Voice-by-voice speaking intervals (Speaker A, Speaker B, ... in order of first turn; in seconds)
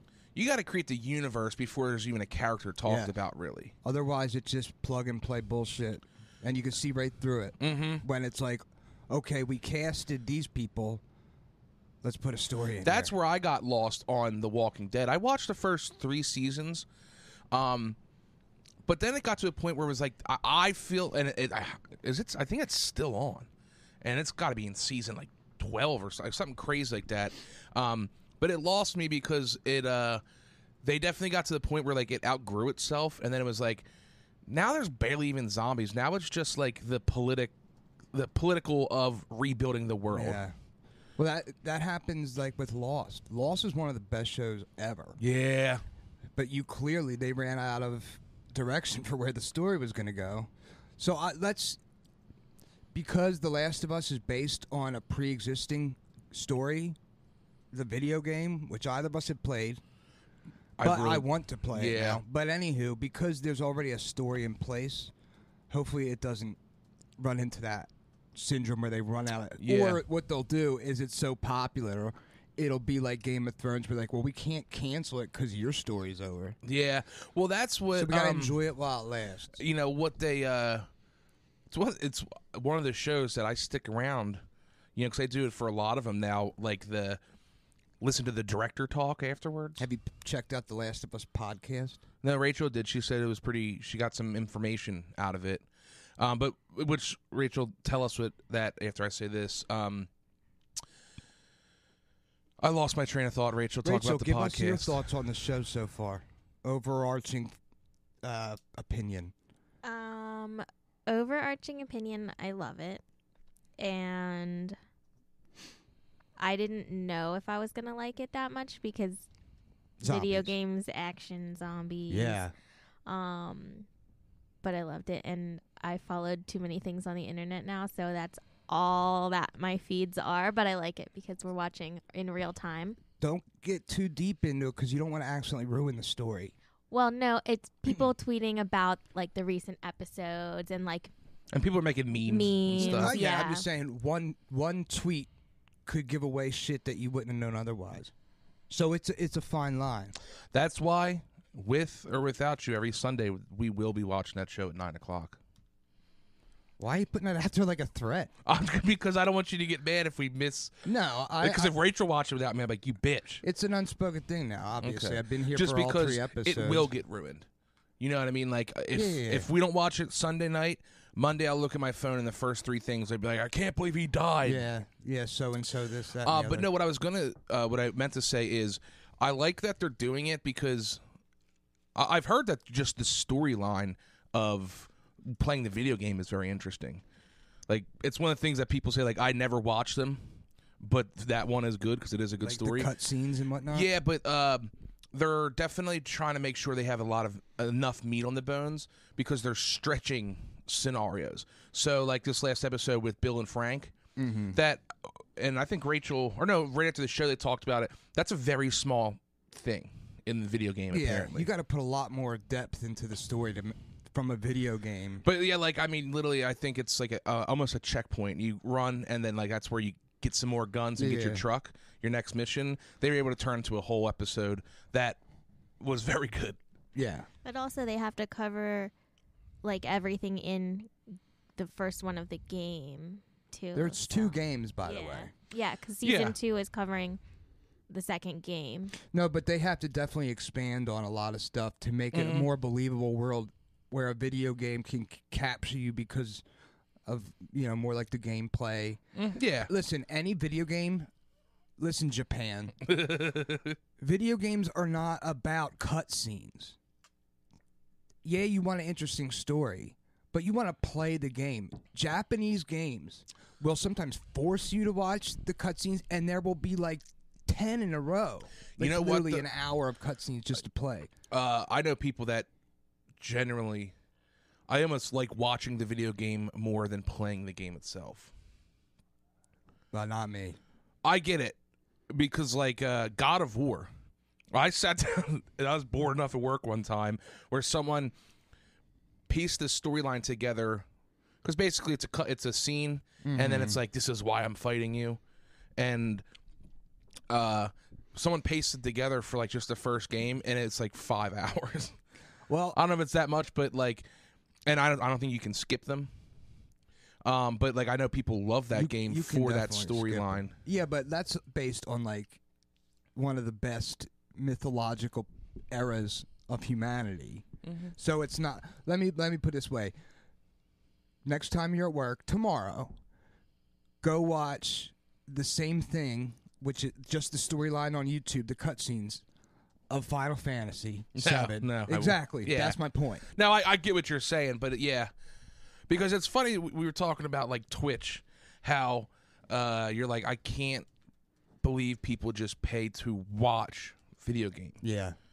Speaker A: 0.3-3.7, 7.6-8.0, 12.8-16.9, 17.5-18.0, 18.9-23.5, 24.0-30.2, 30.8-33.9, 34.5-37.5, 38.1-40.4, 45.2-45.8, 60.8-62.2, 69.6-70.0, 76.6-78.6, 79.5-80.9, 81.7-84.4, 85.0-87.2, 88.0-89.8, 92.2-95.7, 96.2-100.1, 102.6-105.0, 141.5-143.2, 150.5-155.4, 158.4-160.8, 161.4-163.4, 164.8-167.5, 168.0-174.7, 176.2-181.0, 181.9-187.0, 187.7-190.3, 190.8-192.9, 193.7-203.9, 204.5-211.5, 215.2-225.2, 225.8-226.6, 236.0-236.3, 242.1-242.5, 249.2-249.7, 252.8-253.8, 268.8-269.4, 271.3-272.5, 273.2-273.9, 274.7-278.3, 281.0-281.6, 282.1-283.9, 284.5-288.1, 289.3-290.9, 291.4-295.2, 295.8-296.2, 297.3-302.0, 302.7-304.1, 304.6-306.1, 307.2-310.5, 317.6-317.9, 331.2-335.1, 335.9-340.9, 341.6-344.8
Speaker B: 2.9-3.1, 3.8-11.0, 12.0-13.1, 40.1-40.5, 41.2-45.2, 46.4-51.8, 52.9-57.0, 57.7-59.8, 60.8-65.1, 65.7-66.6, 67.2-76.6, 77.9-79.6, 89.8-92.0, 103.8-107.6, 108.2-109.3, 120.0-120.5, 122.1-122.5, 133.2-136.5, 142.8-145.3, 145.8-148.1, 148.7-150.2, 156.8-158.3, 160.8-161.7, 163.4-166.9, 168.9-169.5, 174.4-176.7, 192.4-193.9, 204.2-204.6, 210.9-215.2, 221.0-221.4, 226.9-227.3, 233.7-235.3, 239.1-246.4, 247.1-249.0, 249.7-251.1, 251.8-252.8, 254.0-256.8, 258.2-271.1, 279.9-280.6, 293.2-293.8, 302.5-302.8, 308.7-312.4, 313.1-319.9, 321.2-322.9, 324.0-329.2, 329.9-333.2, 344.8-345.2
Speaker C: 109.8-113.0, 113.8-114.8, 116.4-119.3, 120.0-122.4, 123.0-123.9, 124.6-133.0, 136.9-141.1, 142.3-143.7, 227.4-228.9, 229.6-230.9, 231.6-237.2, 237.9-238.9